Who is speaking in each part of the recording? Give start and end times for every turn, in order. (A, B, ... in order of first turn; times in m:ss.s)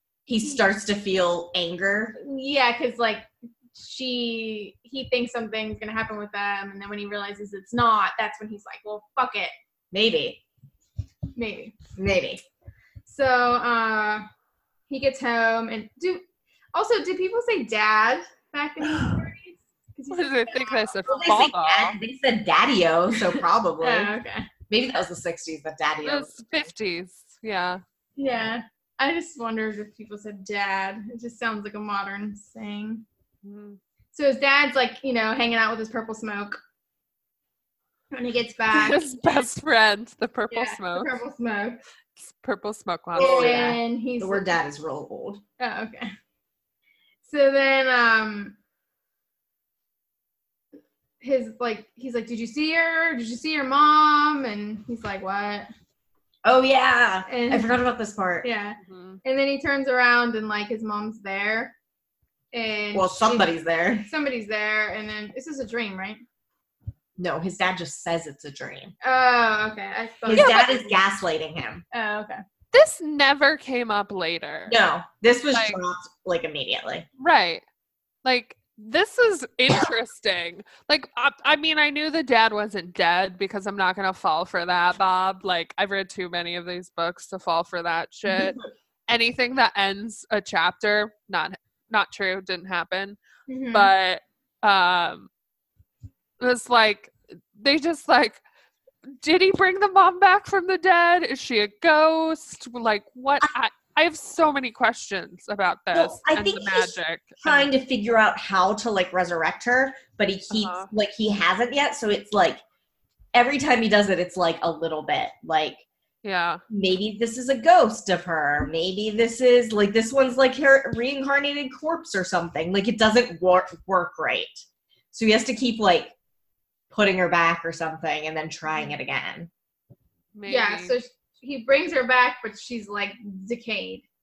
0:00.3-0:02.2 A
0:02.2-0:09.5 B
0:09.9-0:10.4 A
0:11.4-0:11.8 B
0:12.0-0:12.4 A
0:13.1-0:14.2 B
0:14.9-0:16.2 B
0:16.7-0:21.0 B
0:20.1-0:22.0 C
0:21.1-0:24.1 A
0:23.3-0:24.5 B
0:24.7-0:26.4 A
0:26.0-0:27.8 C
0:28.2-0:33.0 B
0:33.4-0:33.8 C
0:34.1-0:36.6 B
0:38.1-0:39.1 B
0:38.7-0:41.1 C
0:40.5-0:41.8 B
0:42.2-0:43.8 C
0:43.1-0:45.4 A
0:43.2-0:44.6 B
0:45.6-0:46.1 B
0:47.2-0:48.6 B
0:51.2-0:55.7 B
0:56.4-0:58.5 A
0:57.3-0:57.8 B
0:58.4-1:01.8 B
0:58.8-0:59.2 C
1:02.5-1:03.5 B
1:02.9-1:04.1 A
1:04.1-1:06.2 B
1:07.2-1:08.9 A
1:09.0-1:11.0 B
1:10.3-1:11.8 A
1:10.3-1:10.7 C
1:11.9-1:12.4 B
1:12.7-1:14.8 C
1:14.7-1:17.1 A
1:15.5-1:15.8 C
1:17.2-1:17.6 C
1:18.2-1:33.2 C
1:33.5-1:33.9 B
1:33.7-1:35.3 C
1:36.4-1:38.4 C
1:39.2-1:47.7 C
1:45.9-1:52.6 A
1:50.5-1:50.9 C
1:53.3-1:55.8 A
1:56.2-1:56.6 C
1:56.7-2:06.1 A
2:06.9-2:09.5 A
2:10.4-2:10.9 C
2:10.5-2:14.0 B